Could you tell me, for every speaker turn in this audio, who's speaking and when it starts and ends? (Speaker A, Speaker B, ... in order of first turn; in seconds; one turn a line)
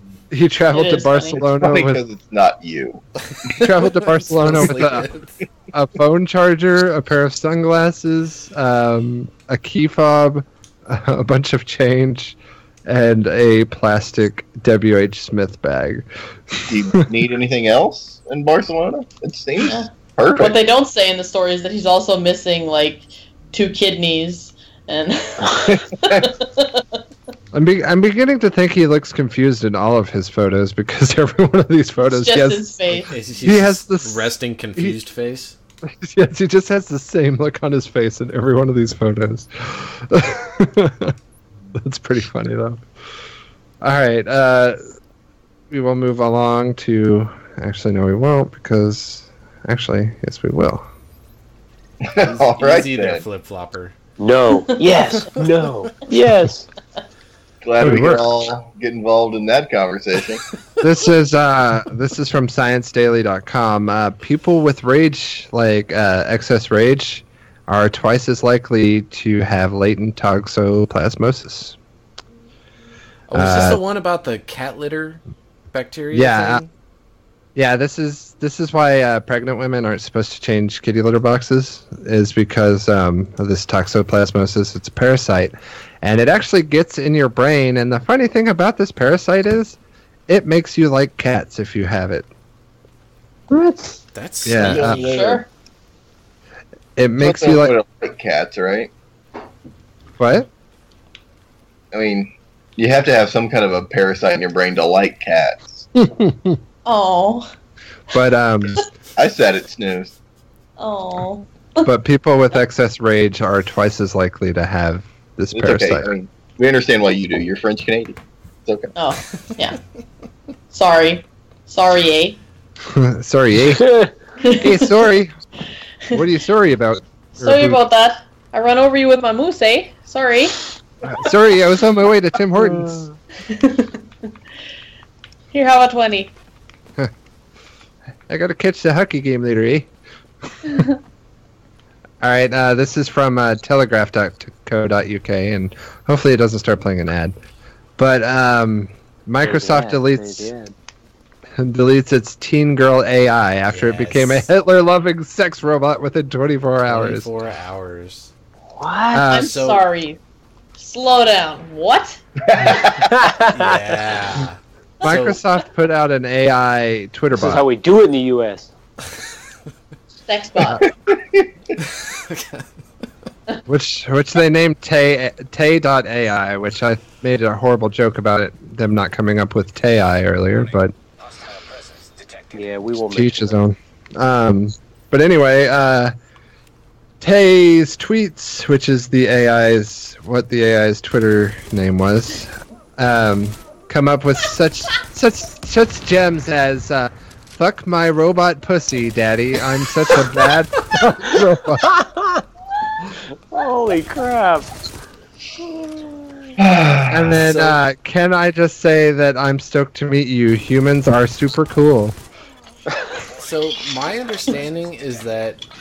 Speaker A: 0.3-2.0
Speaker B: 0.7-1.4
Speaker C: 1.4-3.0
Speaker D: 3.5-5.3
Speaker A: 3.5-5.1
Speaker A: 5.7-16.8
Speaker C: 16.7-20.6
Speaker B: 19.6-26.8
Speaker C: 25.7-26.3
Speaker A: 27.5-32.8
Speaker B: 32.0-33.1
Speaker D: 33.1-35.6
Speaker A: 33.4-35.0
Speaker A: 36.0-41.1
Speaker A: 41.7-42.8
Speaker A: 43.8-44.8
Speaker A: 45.7-50.9
Speaker C: 52.0-53.2
Speaker D: 52.2-54.0
Speaker E: 54.2-56.7
Speaker C: 57.6-60.4
Speaker A: 57.8-58.2
Speaker A: 60.8-71.8
Speaker D: 73.3-76.7
Speaker A: 73.3-73.8
Speaker A: 76.1-76.6
Speaker A: 77.5-89.8
Speaker A: 90.3-92.3
Speaker E: 93.5-93.8
Speaker D: 94.1-94.9
Speaker A: 94.4-95.0
Speaker C: 94.6-95.4
Speaker B: 94.7-95.5
Speaker A: 97.0-97.8
Speaker C: 97.2-98.9
Speaker A: 100.2-100.5
Speaker C: 101.9-105.9
Speaker A: 106.0-106.6
Speaker B: 106.8-107.5
Speaker A: 108.1-108.8
Speaker C: 109.2-110.1
Speaker B: 110.8-111.9
Speaker A: 111.8-116.1
Speaker C: 115.5-118.9
Speaker B: 118.9-119.8
Speaker B: 120.7-122.4
Speaker A: 122.8-123.8
Speaker E: 123.7-124.1
Speaker B: 124.4-124.9
Speaker A: 124.6-125.3
Speaker A: 126.1-127.8
Speaker B: 127.3-130.6
Speaker A: 131.0-133.0
Speaker E: 132.6-133.1
Speaker B: 133.4-134.0
Speaker B: 135.5-136.3
Speaker A: 138.3-139.9
Speaker A: 142.2-147.3
Speaker A: 148.0-150.5
Speaker E: 149.4-150.7
Speaker A: 151.6-157.3
Speaker D: 153.7-154.5
Speaker D: 156.8-158.3
Speaker E: 158.7-159.3
Speaker A: 159.1-159.5
Speaker B: 159.3-160.2
Speaker D: 159.3-159.8
Speaker B: 160.8-162.2
Speaker C: 162.4-163.1
Speaker E: 163.0-163.8
Speaker D: 163.5-165.4
Speaker A: 165.0-167.6
Speaker E: 167.3-168.7
Speaker B: 170.3-170.8
Speaker A: 170.6-170.8
Speaker C: 170.8-171.5
Speaker D: 172.1-172.7
Speaker A: 173.7-180.9
Speaker E: 182.5-183.5
Speaker A: 183.1-186.1
Speaker A: 187.2-202.0
Speaker E: 201.9-202.4
Speaker E: 203.5-204.7
Speaker C: 206.6-207.4
Speaker A: 207.1-212.2
Speaker D: 207.4-207.8
Speaker D: 213.3-215.6